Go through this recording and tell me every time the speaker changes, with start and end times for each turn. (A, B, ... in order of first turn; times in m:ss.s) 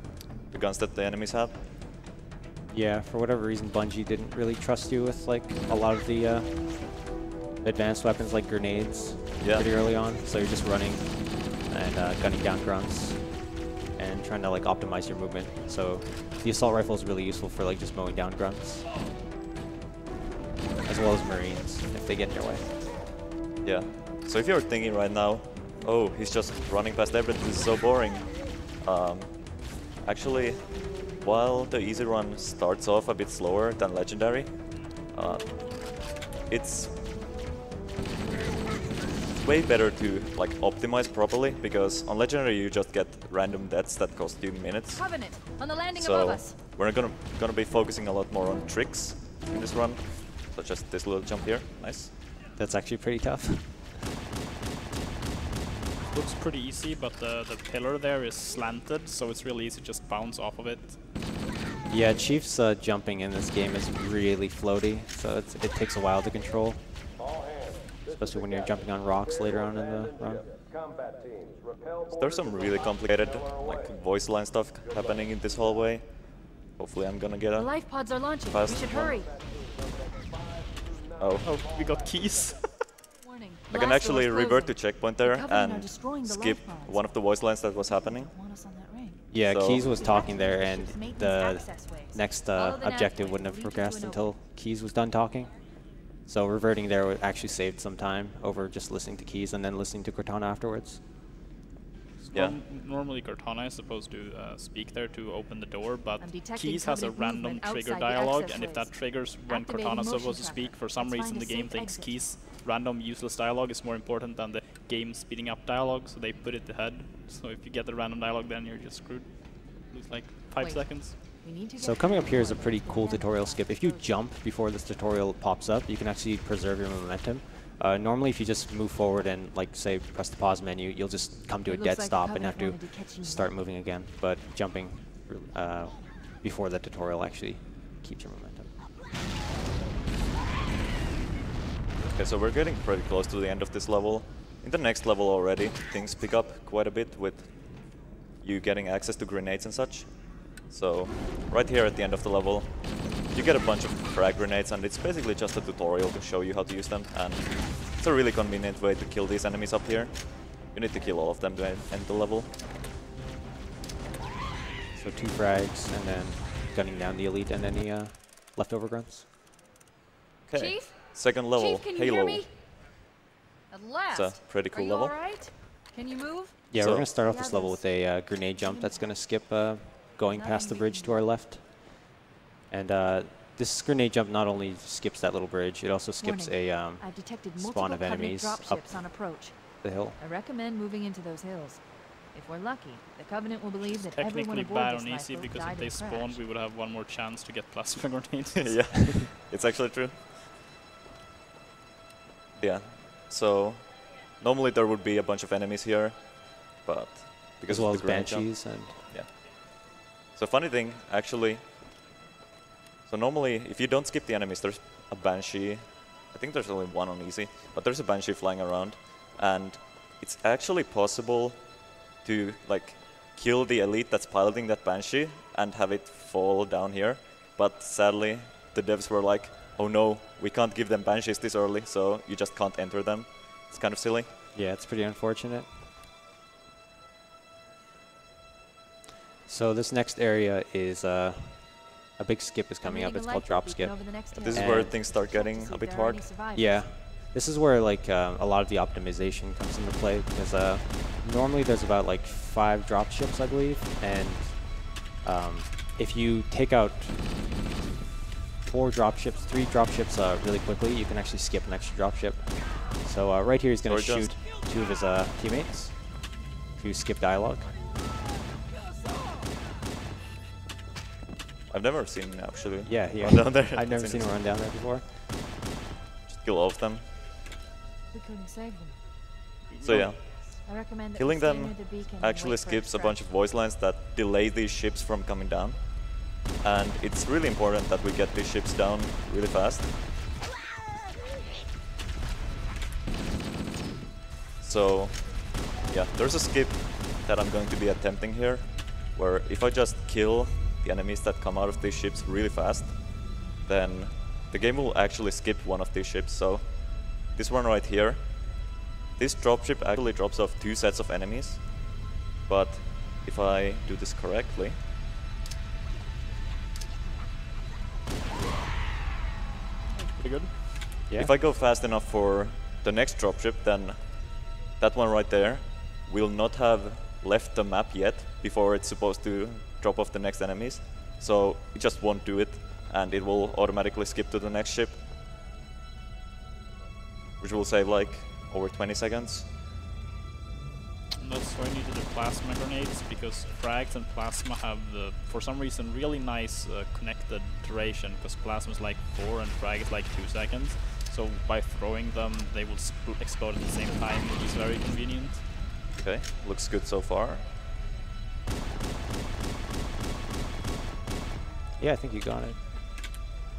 0:00.3-0:01.6 A
0:02.7-0:06.8 B
0:07.6-0:18.8 B
0:09.4-0:09.7 A
0:20.8-0:22.7 B
0:23.6-0:34.5 A
0:35.1-0:35.4 A
0:36.5-0:36.9 A
0:39.4-0:45.2 A
0:44.9-0:46.6 C
0:45.9-0:52.1 A
0:52.6-0:53.9 B
0:56.1-1:01.0 D
1:01.9-1:06.8 B
1:08.0-1:10.5 B
1:12.1-1:16.1 A
1:16.8-1:17.7 A
1:17.5-1:19.3 C
1:18.5-1:19.2 A
1:21.2-1:21.5 A
1:21.4-1:22.8 D
1:23.2-1:27.0 C
1:23.7-1:28.3 A
1:27.8-1:34.3 C
1:29.3-1:35.5 B
1:29.4-1:29.9 A
1:36.3-1:41.0 B
1:42.2-2:01.2 D
1:42.3-1:42.6 A
1:46.2-1:52.1 C
2:00.6-2:04.1 C
2:01.8-2:18.7 B
2:11.6-2:13.5 C
2:22.0-2:27.6 A
2:28.4-2:32.8 A
2:33.3-2:42.5 A
2:44.9-2:49.3 B
2:50.5-2:52.4 A
2:50.5-2:52.5 C
2:53.7-2:56.6 C
2:54.1-2:55.2 A
2:56.7-3:02.0 B
2:56.8-2:57.1 A
2:57.2-2:57.8 C
2:58.6-2:59.1 C
3:00.2-3:01.2 C
3:02.7-3:07.0 B
3:06.2-3:09.5 C
3:07.6-3:09.0 B
3:09.8-3:10.2 B
3:10.2-3:11.8 C
3:12.3-3:16.4 C
3:13.9-3:19.0 D
3:18.6-3:20.4 A
3:22.6-3:29.4 A
3:27.7-3:29.0 B
3:30.3-3:31.6 A
3:33.1-3:41.7 A
3:42.2-3:54.3 A
3:54.5-3:55.7 B
3:59.5-4:04.9 B
4:02.8-4:06.8 C
4:04.3-4:06.2 A
4:06.5-4:17.3 B
4:18.6-4:26.2 B
4:23.9-4:24.3 A
4:26.8-4:27.7 B
4:31.7-4:34.3 A
4:32.8-4:35.0 B
4:36.3-4:37.0 A
4:38.1-4:39.0 C
4:39.7-4:40.2 D
4:39.8-4:40.3 A
4:40.6-4:43.2 C
4:41.1-4:50.0 A
4:54.6-5:08.6 A
5:09.2-5:11.9 A
5:12.5-5:14.8 A
5:20.0-5:20.8 D
5:21.1-5:35.0 A
5:37.4-5:39.5 A
5:41.2-5:55.5 D
5:56.0-5:57.4 A
6:01.8-6:02.6 B